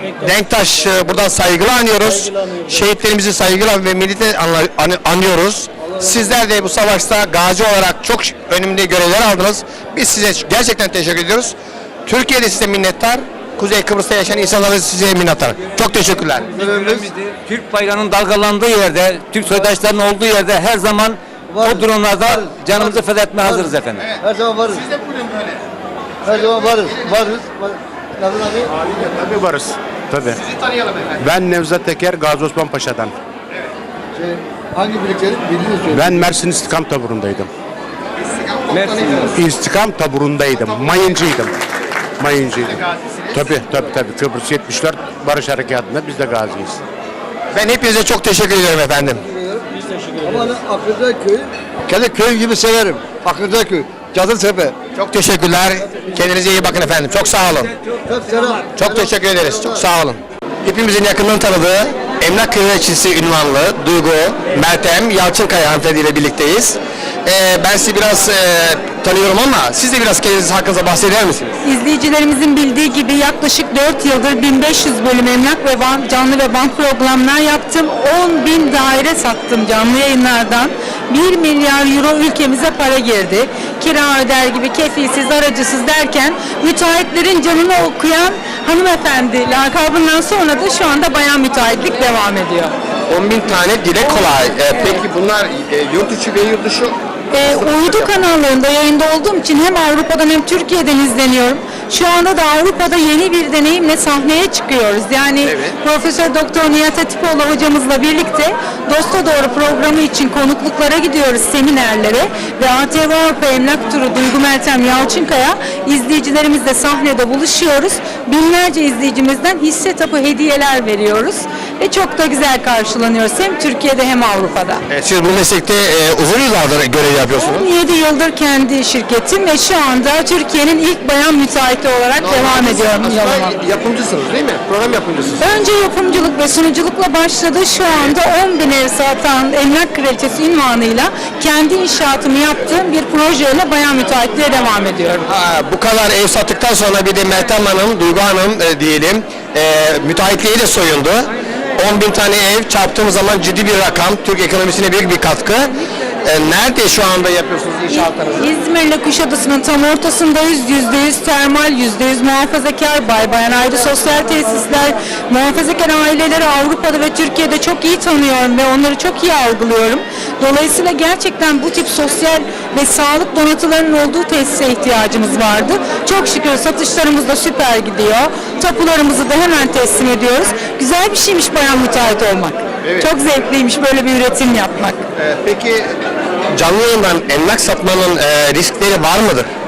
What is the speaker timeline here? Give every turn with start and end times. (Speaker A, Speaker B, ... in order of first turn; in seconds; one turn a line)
Speaker A: 0.2-16.5
Speaker B: 16.5-24.1
Speaker C: 16.5-17.1
Speaker C: 21.5-24.8
Speaker A: 24.7-25.6
Speaker A: 26.2-27.4
Speaker C: 26.3-28.7
Speaker D: 29.0-30.4
Speaker A: 30.4-31.2
Speaker D: 31.2-33.1
Speaker C: 34.2-36.3
Speaker D: 35.9-37.5
Speaker A: 38.2-39.3
Speaker D: 39.2-41.5
Speaker D: 42.2-42.8
Speaker A: 42.6-43.5
Speaker D: 43.3-46.8
Speaker A: 47.5-49.2
Speaker C: 50.2-54.8
Speaker A: 55.0-57.7
Speaker C: 58.0-59.1
Speaker A: 58.8-71.6
Speaker E: 71.6-92.7
Speaker A: 93.1-98.2
Speaker E: 94.7-95.0
Speaker E: 97.3-124.8
Speaker A: 105.4-105.8
Speaker A: 124.9-127.7
Speaker E: 127.4-133.5
Speaker A: 132.2-135.6
Speaker E: 135.4-145.3
Speaker A: 145.3-158.5
Speaker E: 157.9-185.0
Speaker A: 182.8-183.1
Speaker A: 185.2-185.9
Speaker A: 186.5-189.5